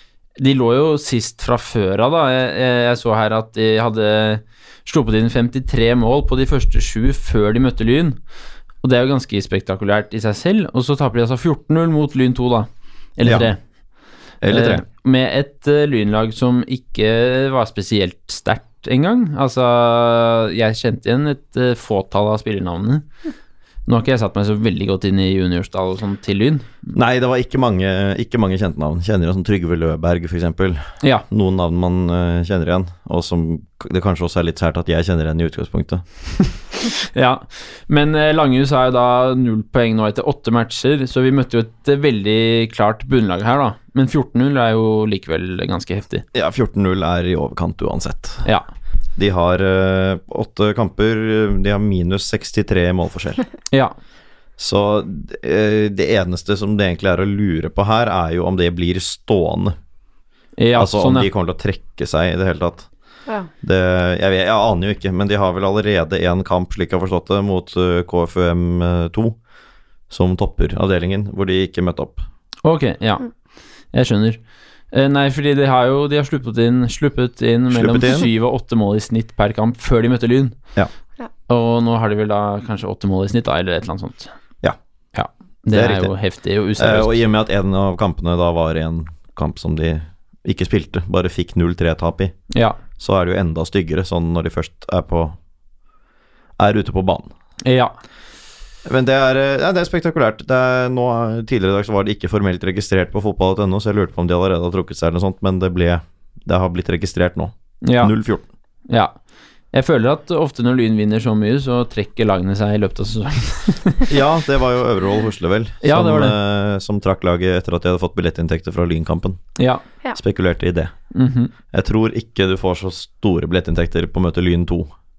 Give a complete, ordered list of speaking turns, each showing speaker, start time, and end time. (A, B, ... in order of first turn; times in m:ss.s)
0:00.4-0:08.2 A
0:08.8-0:13.6 A
0:13.2-0:13.5 B
0:14.4-0:14.8 B
0:14.5-0:23.1 A
0:23.9-0:26.9 A
0:26.9-0:36.0 B
0:36.8-0:46.2 A
0:46.3-0:48.4 B
0:49.2-0:53.4 B
0:54.6-0:59.8 B
1:00.6-1:01.3 A
1:00.8-1:02.9 B
1:03.6-1:09.4 B
1:10.1-1:12.2 B
1:12.6-1:13.3 A
1:13.9-1:14.4 A
1:14.9-1:20.6 A
1:17.7-1:18.3 B
1:21.5-1:24.3 A
1:25.2-1:27.2 A
1:25.7-1:26.1 B
1:26.8-1:32.4 B
1:32.5-1:32.8 A
1:33.0-1:35.4 B
1:36.6-1:37.3 B
1:37.6-1:38.0 A
1:38.8-1:48.5 B
1:47.8-1:48.1 A
1:48.9-1:49.1 A
1:49.7-1:54.1 A
1:54.1-1:59.5 B
1:55.8-1:56.4 A
2:00.1-2:00.9 B
2:01.1-2:01.5 A
2:01.7-2:04.9 B